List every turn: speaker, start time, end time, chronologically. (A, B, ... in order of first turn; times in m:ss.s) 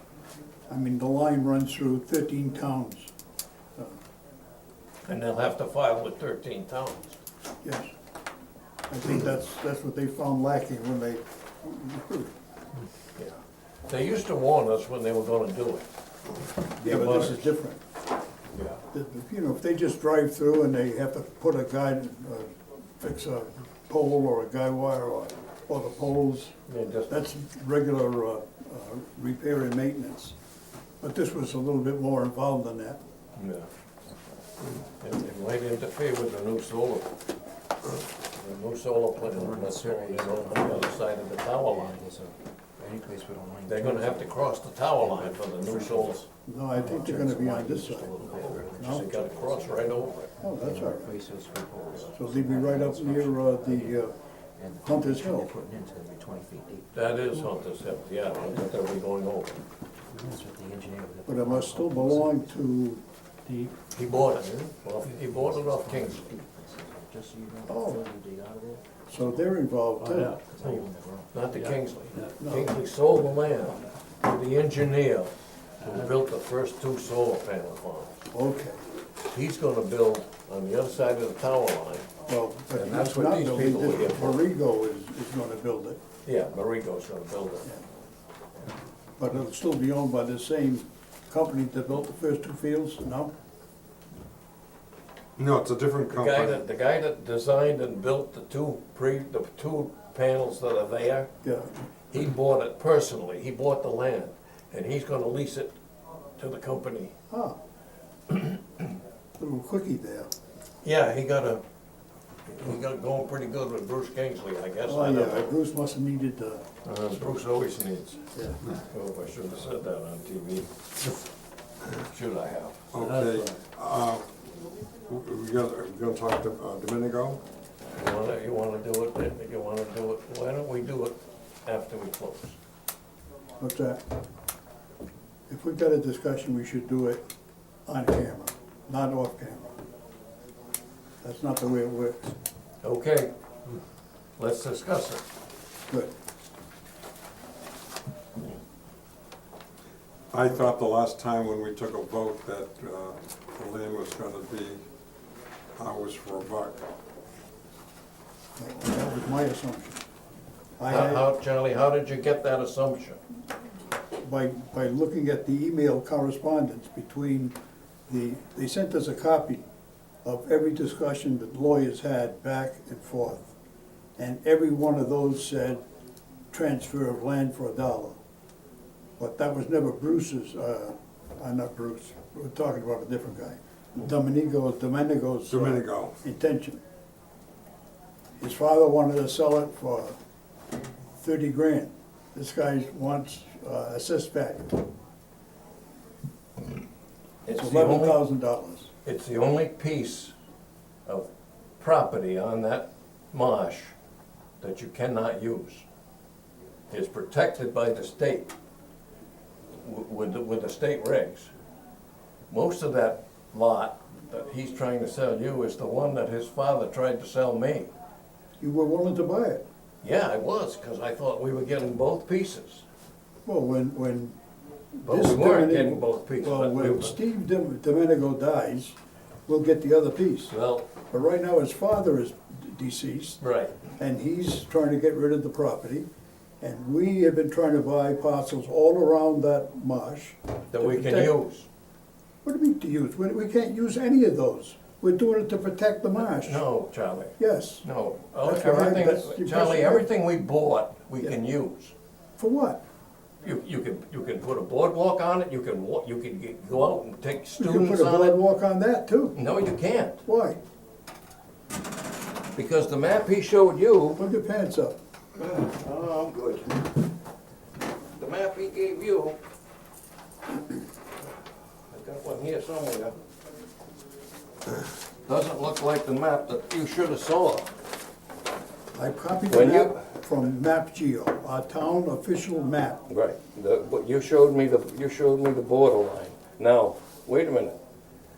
0:00.7-0:03.1 A
0:05.0-0:07.2 B
0:07.6-0:07.9 A
0:08.9-0:12.3 A
0:13.2-0:15.8 B
0:16.8-0:17.5 B
0:16.8-0:17.8 A
0:18.5-0:18.8 B
0:18.9-0:26.5 A
0:26.7-0:27.2 B
0:27.1-0:30.3 A
0:31.0-0:33.0 A
0:33.4-0:33.7 B
0:34.8-0:37.2 B
0:38.3-0:42.0 B
0:39.2-0:56.9 C
0:43.6-0:46.2 B
0:46.4-0:48.2 A
0:48.2-0:50.3 B
0:48.7-0:49.1 A
0:50.4-0:51.1 A
0:52.1-0:54.1 A
0:54.8-0:55.5 A
0:56.9-0:59.6 B
0:58.5-0:58.8 C
1:00.0-1:02.6 C
1:01.2-1:03.0 A
1:03.5-1:12.3 C
1:03.9-1:06.4 B
1:07.7-1:08.0 A
1:09.1-1:10.4 A
1:10.6-1:18.2 B
1:12.4-1:12.8 A
1:18.3-1:18.8 A
1:19.3-1:22.1 B
1:22.3-1:26.0 A
1:22.7-1:24.4 B
1:26.2-1:27.8 B
1:29.2-1:33.3 A
1:35.4-1:36.6 D
1:36.1-1:41.3 B
1:41.4-1:41.7 A
1:42.1-1:45.7 B
1:46.4-1:47.1 B
1:47.3-1:47.6 A
1:48.3-1:48.6 B
1:49.4-1:50.3 A
1:50.8-1:51.6 B
1:52.5-1:55.6 B
1:54.8-1:56.6 A
1:56.8-2:00.7 B
1:58.3-1:58.6 A
2:02.0-2:03.4 B
2:02.9-2:04.3 D
2:05.1-2:07.4 D
2:08.0-2:12.6 B
2:13.6-2:14.0 A
2:15.5-2:17.2 A
2:17.9-2:19.7 A
2:21.2-2:22.2 A
2:22.8-2:23.3 B
2:24.4-2:25.2 B
2:30.3-2:34.8 D
2:35.8-2:36.8 D
2:38.6-2:40.0 A
2:40.8-2:41.2 A
2:40.9-2:43.2 B
2:44.2-2:47.5 A
2:48.1-2:49.6 A
2:50.2-2:53.5 A
2:54.2-2:55.8 A
2:56.5-2:58.2 A
2:59.2-3:06.8 A
3:05.5-3:06.2 D
3:08.4-3:10.1 A
3:11.1-3:14.8 A
3:17.4-3:18.2 B
3:17.5-3:18.9 A
3:19.0-3:20.3 B
3:21.8-3:23.9 B
3:24.6-3:25.8 B
3:26.9-3:28.5 B
3:29.8-3:31.5 B
3:32.5-3:37.9 B
3:38.6-3:39.6 A
3:40.0-3:42.8 B
3:43.4-3:44.4 A
3:45.0-3:48.9 A
3:45.1-3:47.2 B
3:49.5-3:50.5 A
3:50.5-3:50.9 B
3:51.1-3:53.4 A
3:53.4-3:53.8 B
3:54.0-3:56.1 A
3:56.6-4:01.3 A
4:00.7-4:01.7 B
4:02.4-4:06.6 A
4:06.2-4:11.9 B
4:07.4-4:07.8 A
4:08.4-4:10.0 A
4:12.4-4:12.8 A
4:13.4-4:18.4 B
4:17.6-4:19.4 A
4:19.3-4:20.2 B
4:20.2-4:20.6 A
4:22.5-4:24.2 B
4:24.2-4:25.0 A
4:25.4-4:27.0 B
4:28.2-4:29.4 B
4:31.9-4:33.1 B
4:35.2-4:37.7 B
4:38.9-4:43.0 A
4:39.5-4:40.0 B
4:43.1-4:47.8 B